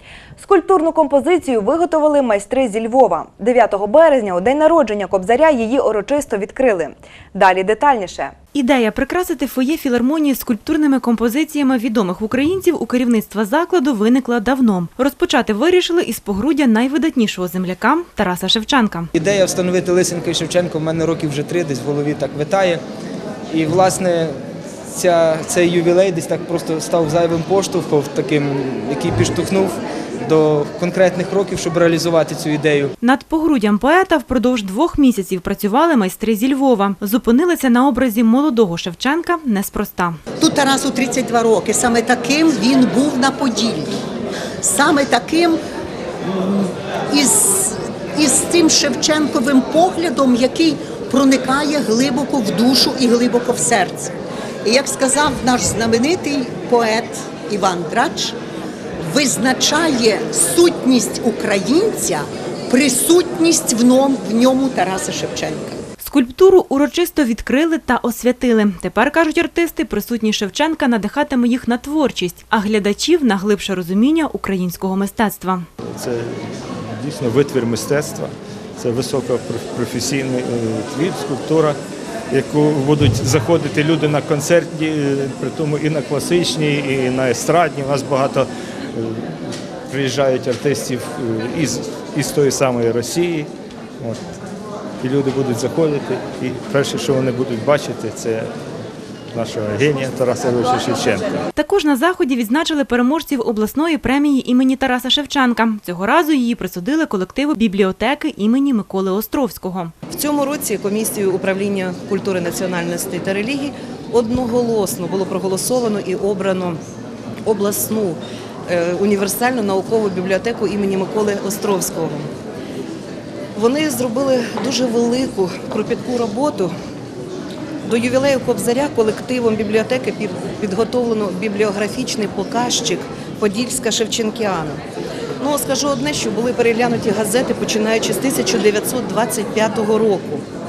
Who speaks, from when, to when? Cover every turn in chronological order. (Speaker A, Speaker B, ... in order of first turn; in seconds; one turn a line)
Speaker A: 0.4-8.3
Speaker B: 8.5-19.1
Speaker C: 19.1-22.8
Speaker C: 23.5-32.9
Speaker B: 33.0-40.2
Speaker D: 40.4-44.0
Speaker D: 44.6-45.6
Speaker D: 46.2-58.4
Speaker D: 59.0-65.8
Speaker B: 66.0-75.7
Speaker E: 75.8-81.8
Speaker E: 82.3-94.2
Speaker E: 95.0-98.5
Speaker E: 99.3-101.4
Speaker B: 101.5-110.0
Speaker F: 110.1-116.8
Speaker F: 117.5-122.3
Speaker F: 123.5-126.7
Speaker F: 127.8-134.8
Speaker F: 135.4-140.5